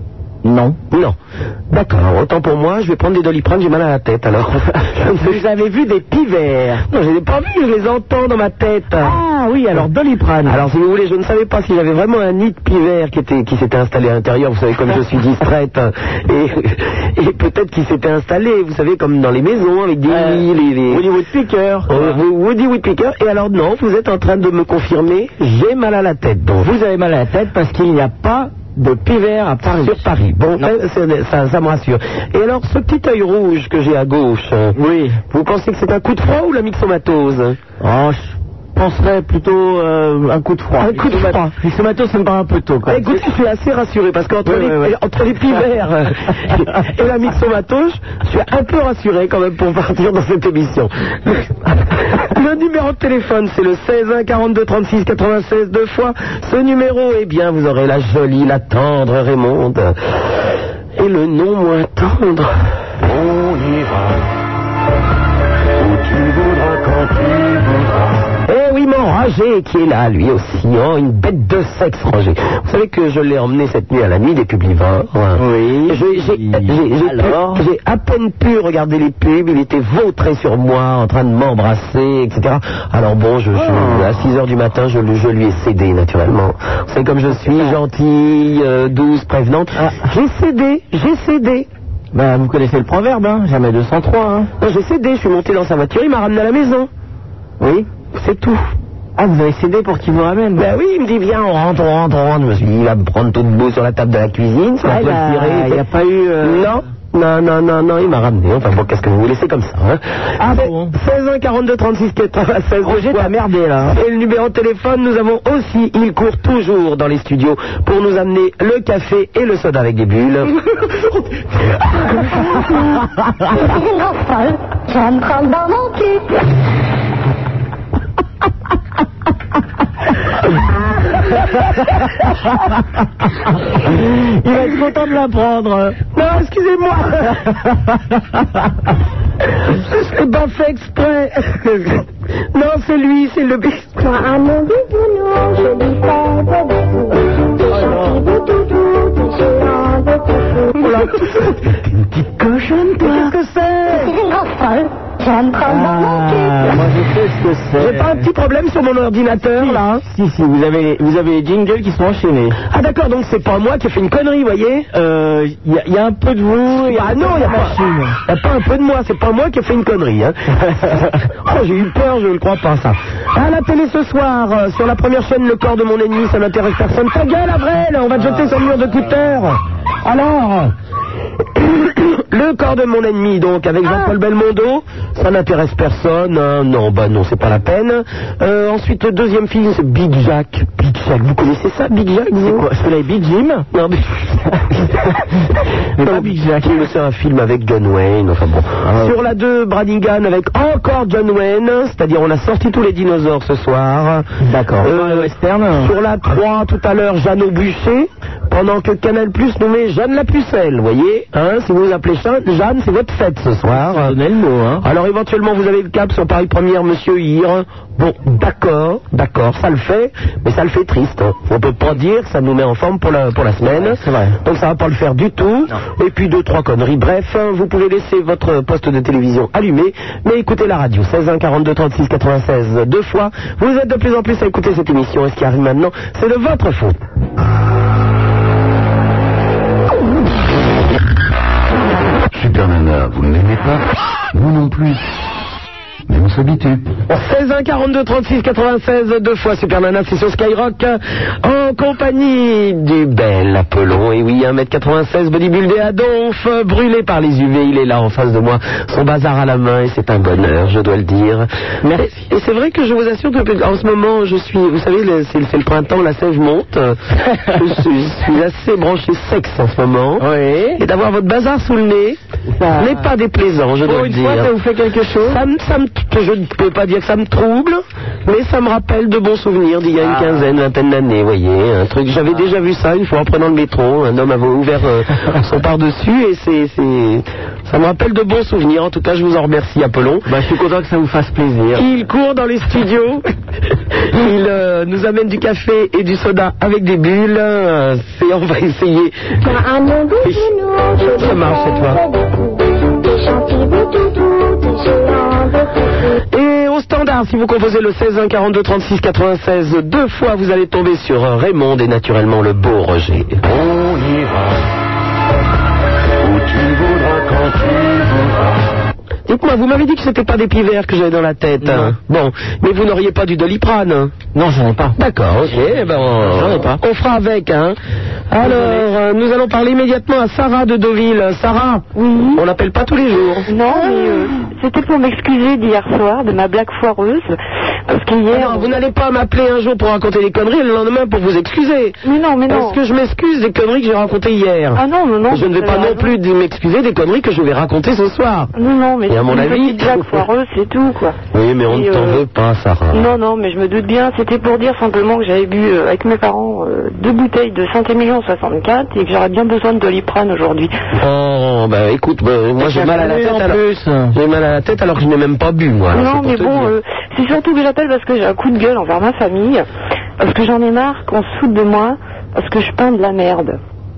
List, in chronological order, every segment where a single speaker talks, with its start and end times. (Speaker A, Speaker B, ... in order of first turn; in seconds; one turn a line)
Speaker A: 0.4-0.8
Speaker B: 0.9-1.2
Speaker B: 1.7-5.4
Speaker A: 4.8-6.8
Speaker B: 6.9-9.2
Speaker A: 9.0-10.6
Speaker B: 10.4-21.0
Speaker A: 20.1-22.2
Speaker B: 21.9-26.7
Speaker A: 26.6-30.0
Speaker B: 29.6-34.8
Speaker A: 34.8-35.2
Speaker B: 35.3-37.6
Speaker A: 37.8-43.2
Speaker B: 40.8-41.5
Speaker B: 42.9-60.0
Speaker A: 44.4-44.9
Speaker B: 61.0-62.5
Speaker C: 63.1-63.9
Speaker C: 65.8-67.9
Speaker B: 68.5-91.7
Speaker A: 75.3-77.6
Speaker A: 83.5-84.1
Speaker A: 87.4-87.8
Speaker A: 89.8-90.0
Speaker A: 92.1-94.5
Speaker B: 94.6-96.9
Speaker A: 97.6-97.9
Speaker B: 98.1-98.7
Speaker A: 99.2-100.7
Speaker B: 100.5-105.8
Speaker A: 104.8-106.8
Speaker B: 106.4-120.6
Speaker A: 110.4-110.9
Speaker A: 112.8-114.0
Speaker D: 122.2-123.0
Speaker D: 123.5-126.4
Speaker A: 133.7-136.0
Speaker B: 136.1-137.5
Speaker A: 137.4-137.7
Speaker B: 139.5-144.0
Speaker D: 144.0-150.9
Speaker A: 147.7-148.2
Speaker B: 150.7-151.6
Speaker A: 151.2-151.5
Speaker A: 152.5-154.2
Speaker D: 153.9-156.8
Speaker A: 155.6-158.3
Speaker B: 157.8-160.0
Speaker A: 159.5-162.6
Speaker B: 162.7-164.9
Speaker A: 164.9-168.2
Speaker B: 166.6-180.7
Speaker A: 170.6-171.1
Speaker A: 178.2-178.5
Speaker B: 181.5-192.7
Speaker A: 192.4-193.7
Speaker B: 193.7-195.0
Speaker A: 196.0-196.8
Speaker B: 196.0-204.3
Speaker A: 198.8-199.1
Speaker A: 204.4-205.9
Speaker B: 204.8-214.2
Speaker A: 213.7-214.8
Speaker B: 214.8-237.0
Speaker A: 223.7-224.4
Speaker C: 242.3-245.3
Speaker C: 246.1-246.9
Speaker B: 247.1-267.0
Speaker A: 261.8-262.1
Speaker B: 267.5-272.2
Speaker A: 270.2-270.8
Speaker A: 272.5-273.1
Speaker B: 272.7-274.5
Speaker A: 273.8-275.4
Speaker B: 275.2-290.3
Speaker A: 280.0-280.6
Speaker A: 290.3-291.9
Speaker B: 291.7-299.5
Speaker D: 299.4-306.2
Speaker B: 301.0-302.0
Speaker B: 306.3-313.4
Speaker C: 313.5-314.3
Speaker C: 316.2-318.2
Speaker B: 319.3-324.1
Speaker A: 321.6-321.9
Speaker A: 324.3-325.0
Speaker B: 325.0-327.8
Speaker A: 325.5-326.8
Speaker B: 328.3-333.5
Speaker A: 328.4-328.9
Speaker E: 331.9-332.4
Speaker E: 333.5-337.4
Speaker E: 337.9-338.7
Speaker B: 338.3-348.5
Speaker E: 342.0-342.8
Speaker E: 344.7-346.2
Speaker E: 348.6-351.1
Speaker B: 349.1-350.2
Speaker B: 351.3-353.1
Speaker E: 351.7-352.2
Speaker E: 352.9-360.7
Speaker B: 360.9-366.7
Speaker A: 362.6-364.1
Speaker E: 365.9-369.6
Speaker E: 370.2-373.6